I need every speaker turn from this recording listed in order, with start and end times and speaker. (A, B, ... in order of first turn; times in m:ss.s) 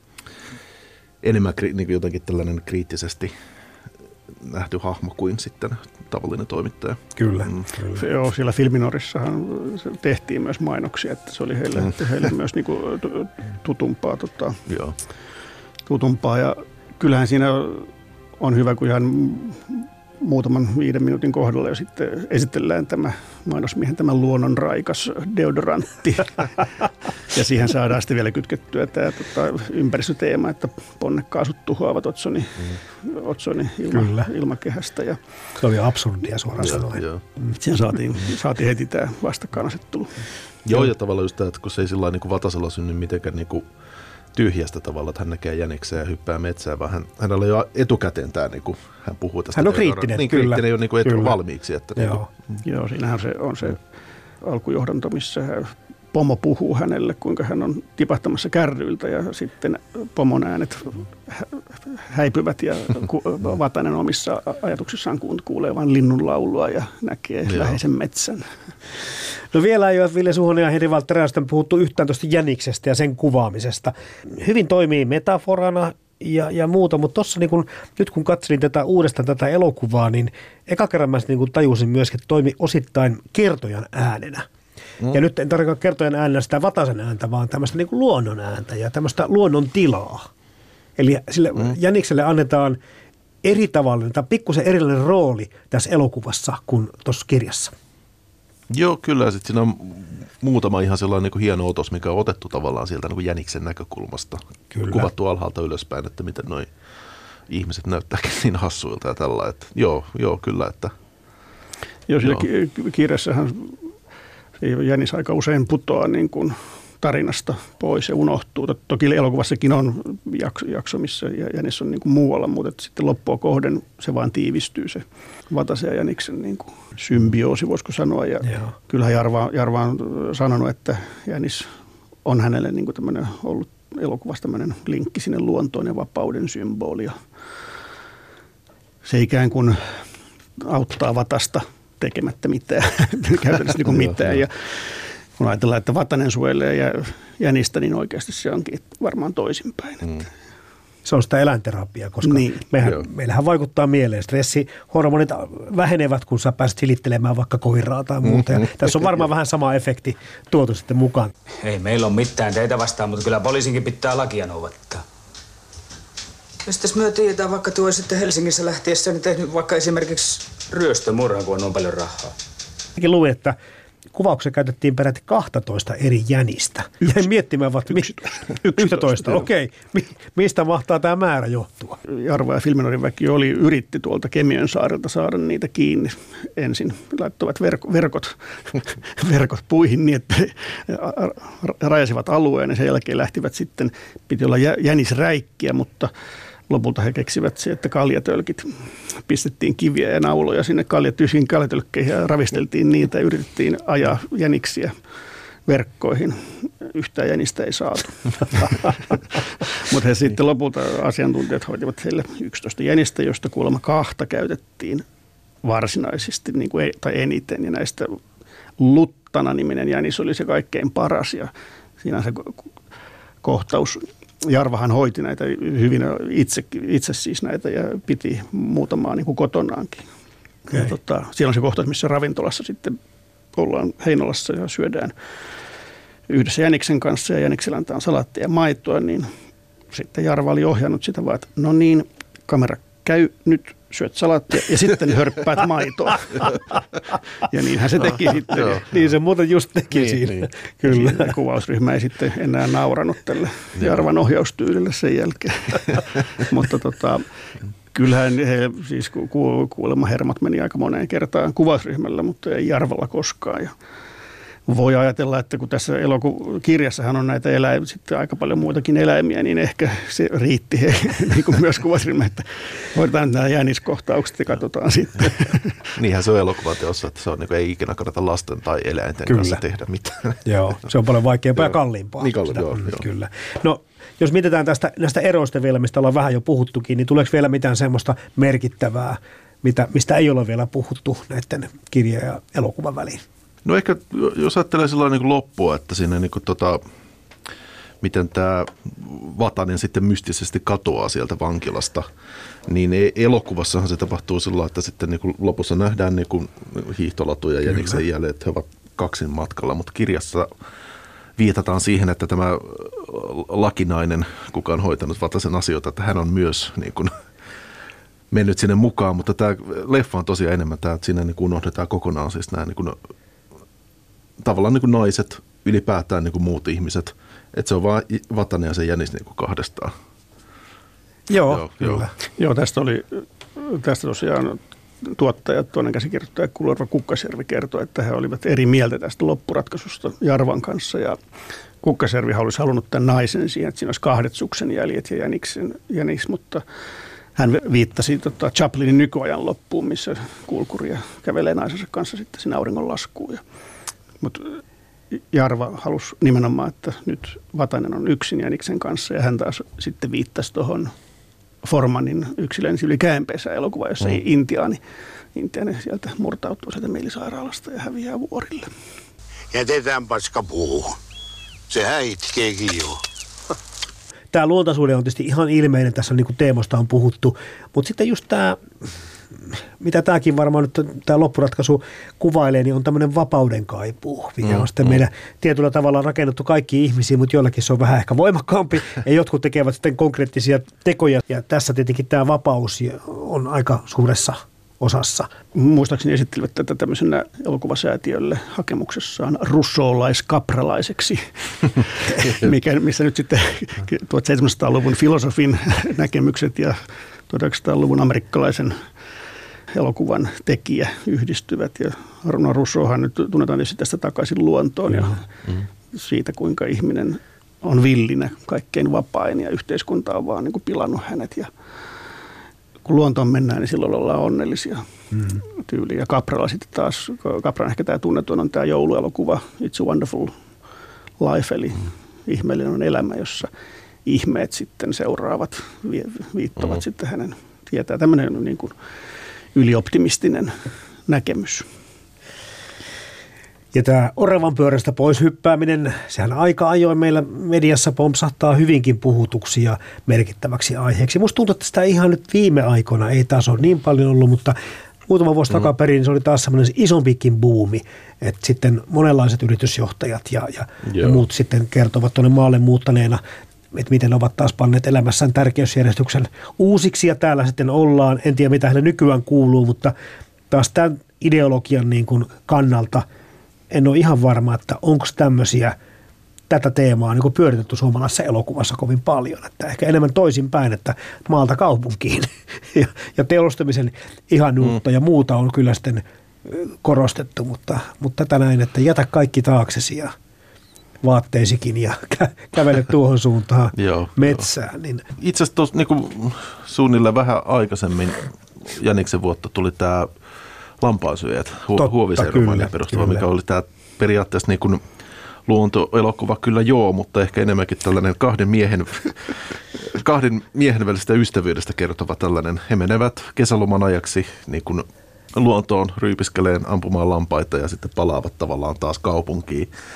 0:01.2-0:03.3 A
0:04.4-0:07.7 A
0:07.2-0:08.0 B
0:08.0-0:14.6 C
0:14.7-0:15.0 A
0:15.9-0:17.9 C
0:18.4-0:26.7 C
0:27.3-0:35.2 C
0:33.9-0:34.3 B
0:35.6-0:37.0 B
0:36.6-0:37.2 A
0:37.6-0:40.1 C
0:40.6-0:43.7 A
0:44.3-0:52.2 A
0:49.5-0:51.3 B
0:52.0-0:52.3 B
0:52.6-0:53.8 C
0:54.4-1:08.4 C
1:07.5-1:07.8 A
1:09.5-1:24.5 B
1:25.1-1:30.3 B
1:31.0-1:32.8 B
1:33.4-1:37.7 B
1:38.7-1:46.7 A
1:44.7-1:45.0 B
1:47.5-1:50.9 A
1:52.1-1:53.8 C
1:54.6-2:11.7 C
2:12.2-2:17.2 C
2:19.0-2:20.0 C
2:20.6-2:30.3 C
2:23.9-2:24.4 A
2:31.0-2:41.3 B
2:32.2-2:32.6 C
2:38.2-2:38.9 A
2:41.6-2:45.0 D
2:46.6-2:52.3 D
2:53.0-2:53.6 B
2:54.1-2:58.1 B
2:57.9-2:59.4 C
2:58.6-3:02.0 B
3:02.1-3:16.1 C
3:16.7-3:24.9 C
3:25.7-3:35.0 C
3:35.6-3:38.2 C
3:38.8-3:41.5 C
3:42.0-3:42.7 C
3:43.4-3:50.0 C
3:50.7-3:53.0 C
3:53.6-3:55.1 C
3:56.3-3:59.3 C
3:59.9-4:06.6 C
4:07.4-4:08.8 C
4:08.5-4:08.8 A
4:08.9-4:11.3 B
4:09.9-4:10.5 A
4:10.9-4:17.2 C
4:13.8-4:14.0 A
4:17.9-4:23.7 C
4:24.7-4:35.9 C
4:36.0-4:40.4 A
4:39.3-4:39.6 B
4:40.4-4:53.2 B
4:41.6-4:43.0 A
4:53.6-4:56.8 A
4:58.0-5:02.1 A
5:02.6-5:10.5 A
5:07.7-5:08.0 B
5:11.4-5:17.1 A
5:18.3-5:23.0 A
5:24.4-5:29.9 A
5:31.3-5:32.1 B
5:31.5-5:32.1 A
5:32.4-5:41.2 C
5:41.8-5:46.6 C
5:47.4-5:53.4 C
5:54.2-5:54.6 C
5:55.2-6:00.9 C
6:01.6-6:04.8 C
6:05.3-6:08.7 C
6:09.5-6:10.9 E
6:11.7-6:13.0 E
6:14.3-6:18.6 B
6:19.8-6:35.3 B
6:24.4-6:25.0 A
6:35.5-6:48.8 C
6:49.7-6:55.2 C
6:55.9-7:01.5 C
7:02.8-7:04.8 C
7:05.6-7:10.3 C
7:11.2-7:13.5 C
7:14.0-7:18.7 C
7:19.5-7:20.5 C
7:21.1-7:21.7 C
7:23.7-7:43.2 B
7:40.8-7:41.2 A
7:43.7-7:49.9 B
7:50.5-7:53.0 B
7:53.7-7:55.8 B
7:56.5-8:10.1 B
8:11.0-8:15.0 B
8:13.8-8:14.5 A
8:15.2-8:20.1 A
8:20.8-8:24.8 A
8:21.8-8:23.2 B
8:25.5-8:39.7 A